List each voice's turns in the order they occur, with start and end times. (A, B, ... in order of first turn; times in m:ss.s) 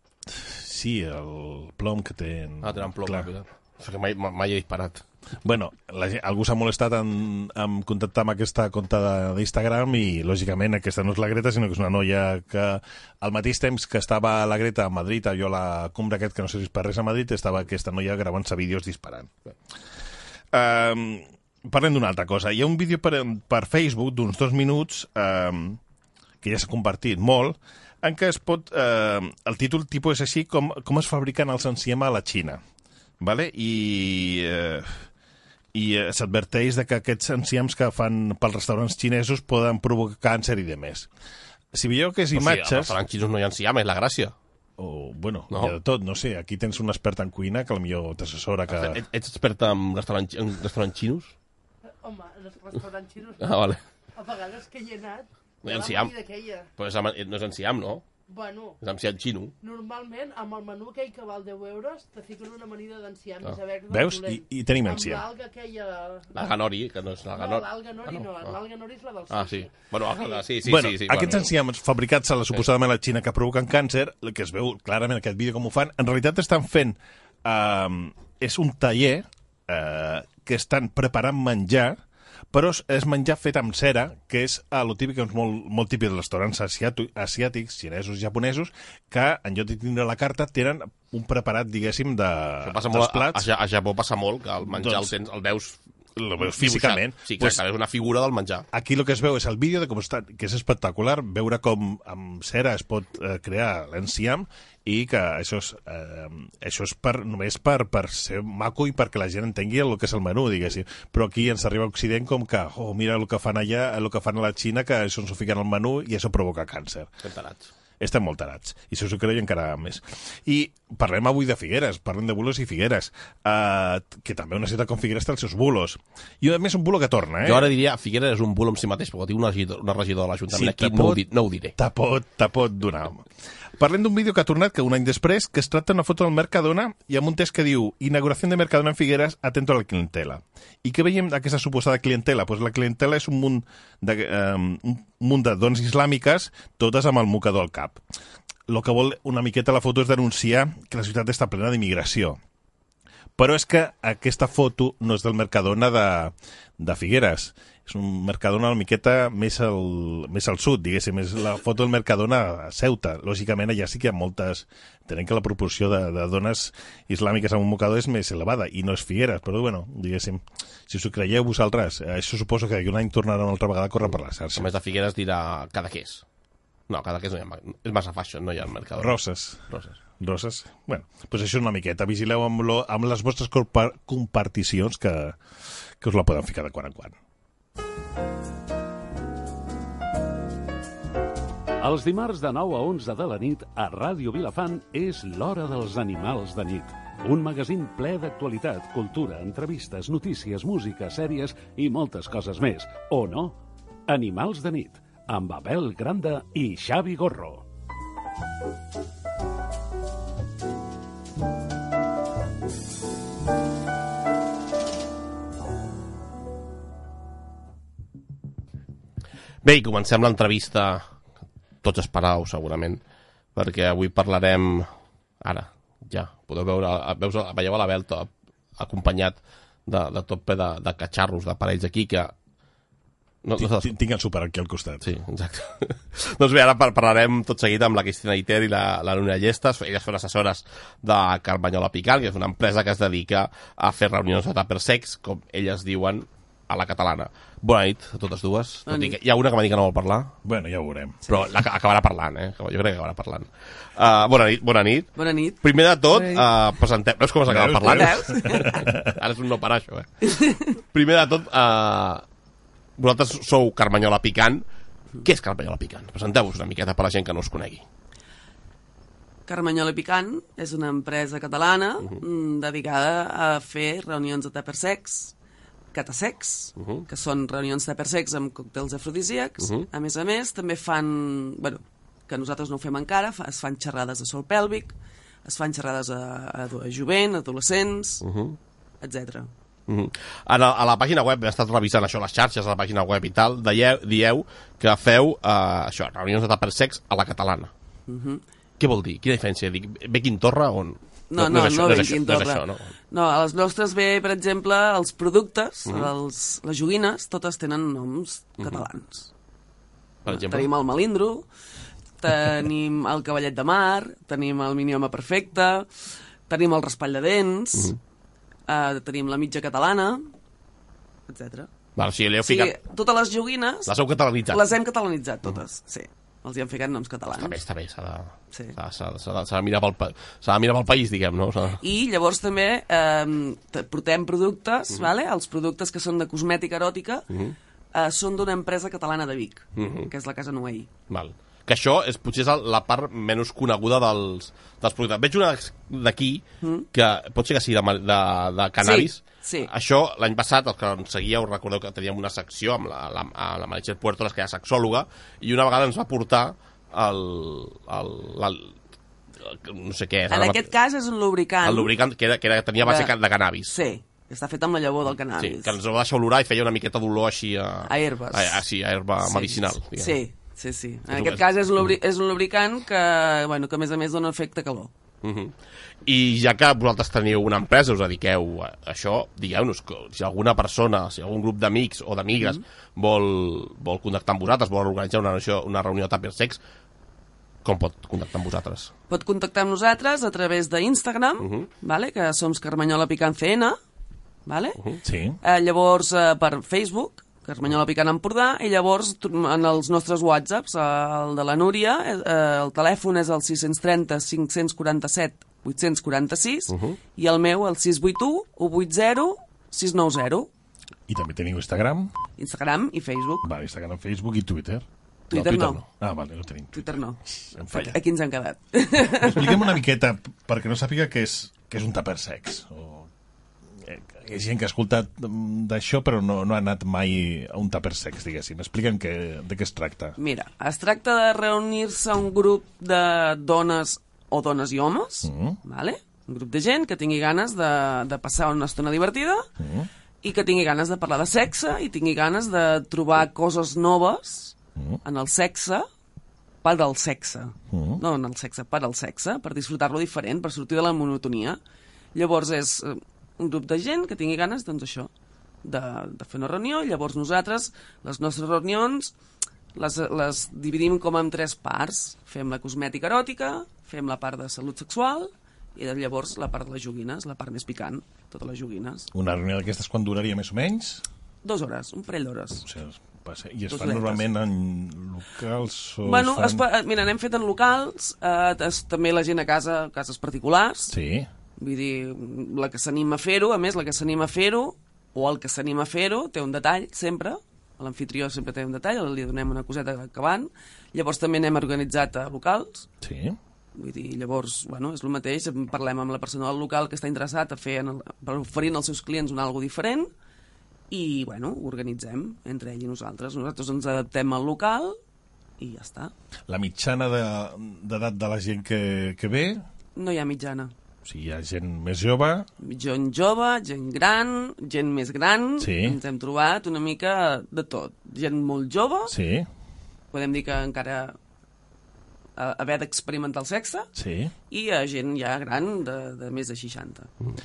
0:00.3-0:03.3 A
0:02.6-0:05.0 B
0:05.4-0:19.4 A
0:20.5-0:25.8 A
0:26.4-0:32.6 A
0:33.2-0:35.0 A
0:35.7-0:41.1 A
0:41.7-0:43.0 A
0:42.3-0:44.3 B
0:44.8-0:49.0 A
0:48.7-0:51.3 B
0:52.0-0:53.4 C
0:53.4-0:53.8 B
0:54.2-0:56.7 C
0:55.6-0:56.2 B
0:56.8-0:58.0 B
0:58.3-0:58.7 C
0:58.8-0:59.5 B
0:59.6-1:04.3 C
1:03.9-1:05.3 A
1:04.9-1:06.3 C
1:06.3-1:08.6 B
1:07.4-1:09.9 C
1:09.3-1:11.5 B
1:10.6-1:22.0 A
1:22.5-1:33.4 A
1:32.6-1:35.8 B
1:34.6-1:35.1 A
1:36.2-1:37.6 A
1:36.4-1:38.6 B
1:38.7-1:57.1 A
1:57.2-1:57.7 B
1:58.0-2:07.7 A
2:07.4-2:11.7 B
2:10.5-2:11.2 A
2:11.8-2:13.2 A
2:13.8-2:28.0 A
2:28.7-2:32.4 A
2:33.4-2:54.7 A
2:54.6-2:56.2 B
2:56.9-2:59.2 B
2:59.0-2:59.6 A
2:59.7-3:00.0 B
3:00.2-3:05.4 A
3:06.0-3:07.2 A
3:11.8-3:27.6 D
3:39.6-3:41.0 B
3:41.8-3:43.0 B
3:43.6-3:44.9 B
3:45.4-3:52.3 B
3:53.4-3:53.9 B
3:53.6-3:55.1 A
3:55.0-4:10.3 B
4:08.9-4:09.2 E
4:10.4-4:11.2 A
4:11.3-4:15.1 B
4:15.2-4:15.6 E
4:15.6-4:20.4 B
4:16.1-4:16.4 E
4:17.5-4:19.1 A
4:17.8-4:18.8 E
4:20.2-4:20.7 E
4:20.9-4:22.2 B
4:23.0-4:24.6 B
4:25.2-4:27.8 B
4:29.5-4:35.3 E
4:35.9-4:44.9 E
4:36.8-4:37.1 B
4:39.6-4:39.9 B
4:45.4-4:48.2 E
4:48.2-4:48.6 B
4:49.0-4:49.5 E
4:49.9-4:57.7 B
4:58.1-4:58.4 E
4:58.8-5:02.9 B
5:01.3-5:09.3 E
5:05.8-5:06.1 B
5:08.6-5:08.8 B
5:10.2-5:10.7 B
5:10.2-5:11.4 E
5:12.2-5:15.9 E
5:16.5-5:17.9 E
5:18.7-5:20.3 E
5:21.3-5:21.7 E
5:22.0-5:22.8 B
5:22.4-5:23.9 E
5:23.9-5:24.7 B
5:24.5-5:27.6 E
5:27.4-5:31.8 B
5:31.8-5:37.2 E
5:37.3-5:37.6 B
5:37.9-5:40.9 E
5:39.8-5:40.1 B
5:41.1-5:58.7 B
5:46.6-5:46.9 E
5:48.8-5:49.7 E
5:59.4-6:00.7 B
6:00.3-6:01.9 E
6:01.6-6:03.7 B
6:02.8-6:03.1 E
6:03.7-6:05.8 E
6:05.4-6:10.2 B
6:07.8-6:08.6 E
6:09.2-6:14.9 E
6:11.1-6:11.9 B
6:15.2-6:15.5 B
6:16.0-6:26.6 B
6:27.6-6:28.9 B
6:29.1-6:33.8 E
6:31.4-6:31.7 B
6:34.4-6:34.8 E
6:35.0-6:35.4 A
6:35.4-6:50.5 E
6:46.7-6:47.0 B
6:51.1-6:52.1 A
6:52.4-6:53.4 E
6:53.4-6:54.8 A
6:55.3-6:55.8 E
6:55.3-6:55.8 B
6:55.4-6:56.9 A
6:56.7-6:59.8 E
6:57.6-6:58.0 A
6:59.2-7:03.1 A
7:03.8-7:10.2 A
7:10.2-7:19.5 E
7:15.2-7:15.6 A
7:19.6-7:19.9 A
7:20.2-7:25.9 E
7:26.6-7:31.6 E
7:27.7-7:28.0 A
7:32.1-7:35.1 E
7:35.6-7:39.1 E
7:39.7-7:49.1 E
7:49.1-7:51.0 A
7:51.4-7:52.6 E
7:52.6-7:56.6 A
7:53.7-7:54.2 E
7:56.0-8:00.9 E
8:00.9-8:01.3 A
8:01.6-8:12.9 E
8:13.0-8:13.4 A
8:13.8-8:20.1 E
8:20.9-8:25.0 E
8:25.6-8:26.1 E
8:26.5-8:29.6 A
8:30.0-8:30.7 E
8:31.0-8:32.5 A
8:32.6-8:39.2 E
8:35.6-8:36.0 A
8:39.1-8:39.5 A
8:40.1-8:41.2 E
8:42.4-8:43.9 E
8:44.0-8:44.3 A
8:44.5-8:47.1 E